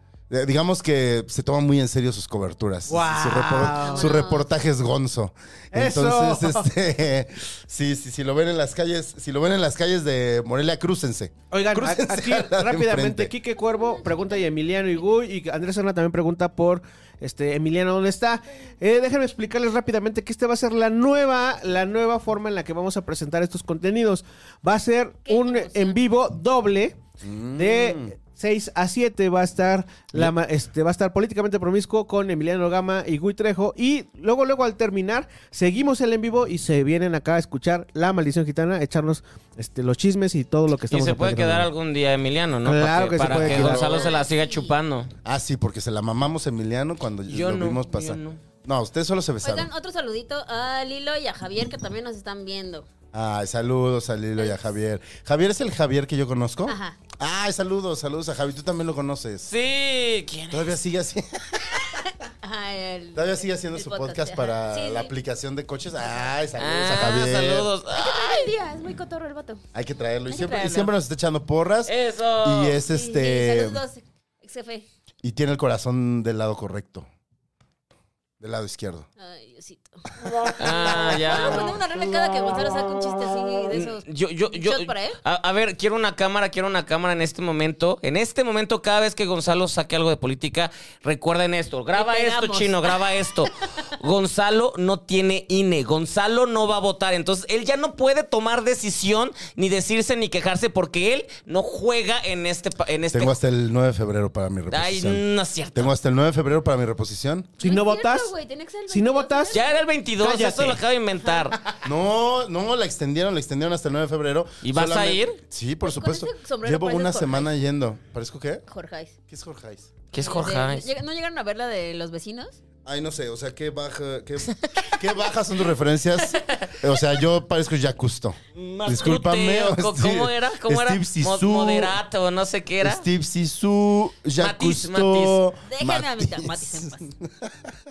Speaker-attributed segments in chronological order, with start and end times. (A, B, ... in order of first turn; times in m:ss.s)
0:00.3-0:13.3 A
0:02.9-0:04.2 B
0:03.7-0:04.5 C
0:05.7-0:06.7 B
0:11.5-0:27.0 B
0:13.9-0:14.2 C
0:25.3-0:26.0 C
0:27.2-0:28.1 A
0:27.5-0:41.7 B
0:40.9-0:45.1 D
0:42.6-0:43.9 B
0:43.2-0:44.2 A
0:43.8-0:44.7 C
0:45.2-0:49.7 A
0:47.3-0:48.4 D
0:49.4-0:52.9 C
0:53.1-0:59.5 A
0:54.4-0:54.7 C
0:56.7-0:57.0 C
0:59.5-1:00.8 D
1:00.5-1:01.9 A
1:01.8-1:05.1 C
1:03.2-1:07.7 A
1:06.6-1:08.5 D
1:07.9-1:09.6 C
1:09.7-1:13.8 A
1:10.3-1:10.9 C
1:11.9-1:12.8 D
1:12.8-1:14.9 C
1:15.2-1:17.1 A
1:18.4-1:19.1 A
1:19.2-1:25.2 C
1:20.6-1:21.8 D
1:23.7-1:43.4 D
1:31.9-1:33.3 C
1:43.1-1:45.2 A
1:44.7-1:45.9 D
1:45.7-1:47.5 A
1:47.6-1:48.3 B
1:47.6-1:49.8 C
1:48.9-1:49.6 B
1:49.5-1:51.6 D
1:50.2-1:50.8 B
1:51.8-1:58.6 A
1:54.6-1:55.4 D
1:55.8-1:57.5 C
1:58.7-1:59.1 C
1:59.3-1:59.9 A
2:00.1-2:00.9 D
2:00.2-2:02.6 C
2:02.8-2:12.0 A
2:04.6-2:05.0 D
2:06.2-2:07.0 D
2:08.6-2:13.0 D
2:12.8-2:17.7 A
2:14.4-2:15.4 D
2:15.7-2:17.1 C